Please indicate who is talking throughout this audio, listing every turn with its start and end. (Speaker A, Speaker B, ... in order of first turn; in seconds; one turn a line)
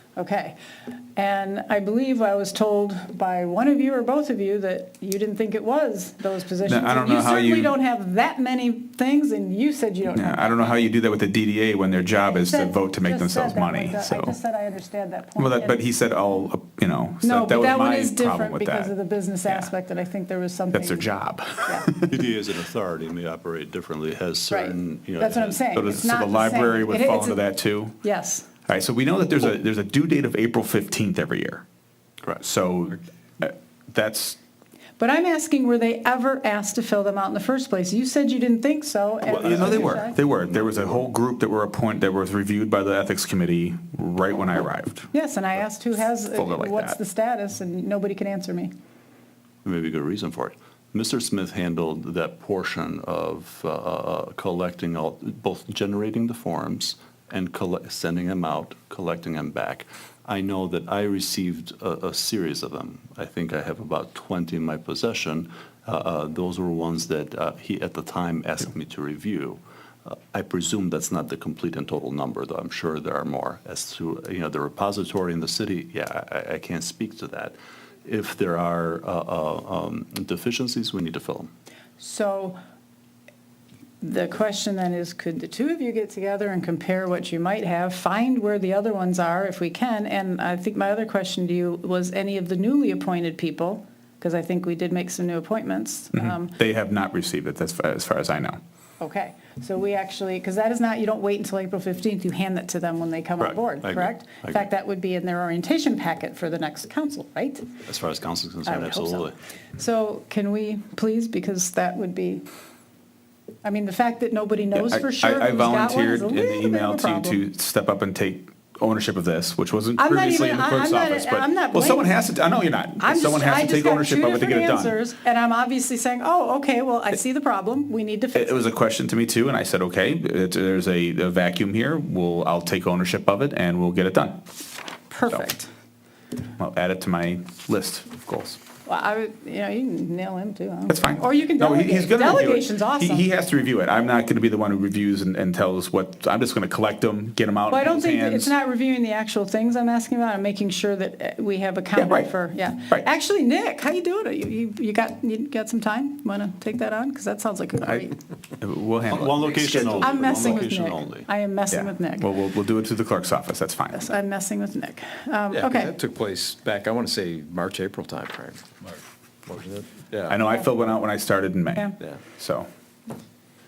Speaker A: 0.1-0.5
Speaker A: 1.1-10.8
Speaker B: 6.6-7.7
Speaker B: 10.1-14.3
Speaker A: 12.1-15.8
Speaker B: 15.4-18.9
Speaker A: 17.2-21.1
Speaker B: 20.7-22.2
Speaker C: 22.1-25.9
Speaker A: 24.5-27.5
Speaker B: 25.7-28.0
Speaker A: 28.0-28.5
Speaker B: 28.6-31.6
Speaker B: 32.4-34.4
Speaker A: 35.0-40.1
Speaker B: 39.2-45.1
Speaker C: 39.3-41.1
Speaker A: 45.1-48.7
Speaker B: 46.3-47.0
Speaker C: 49.6-81.5
Speaker A: 82.0-82.6
Speaker A: 84.0-96.5
Speaker B: 96.1-98.6
Speaker A: 99.0-107.7
Speaker C: 103.4-104.7
Speaker C: 107.9-109.3
Speaker A: 108.6-112.4
Speaker A: 113.6-117.4
Speaker B: 114.7-125.0
Speaker A: 120.0-122.1
Speaker A: 123.0-128.7
Speaker B: 128.3-134.4
Speaker A: 135.1-135.7
Speaker B: 136.6-138.6
Speaker A: 138.8-143.3
Speaker B: 140.9-148.5
Speaker A: 147.7-158.2
Speaker B: 151.9-152.3
Speaker B: 158.6-160.4
Speaker C: 159.1-161.3
Speaker A: 159.7-162.3
Speaker B: 161.7-164.0
Speaker A: 163.9-165.9
Speaker D: 165.5-168.6
Speaker D: 169.4-170.4
Speaker B: 170.3-172.7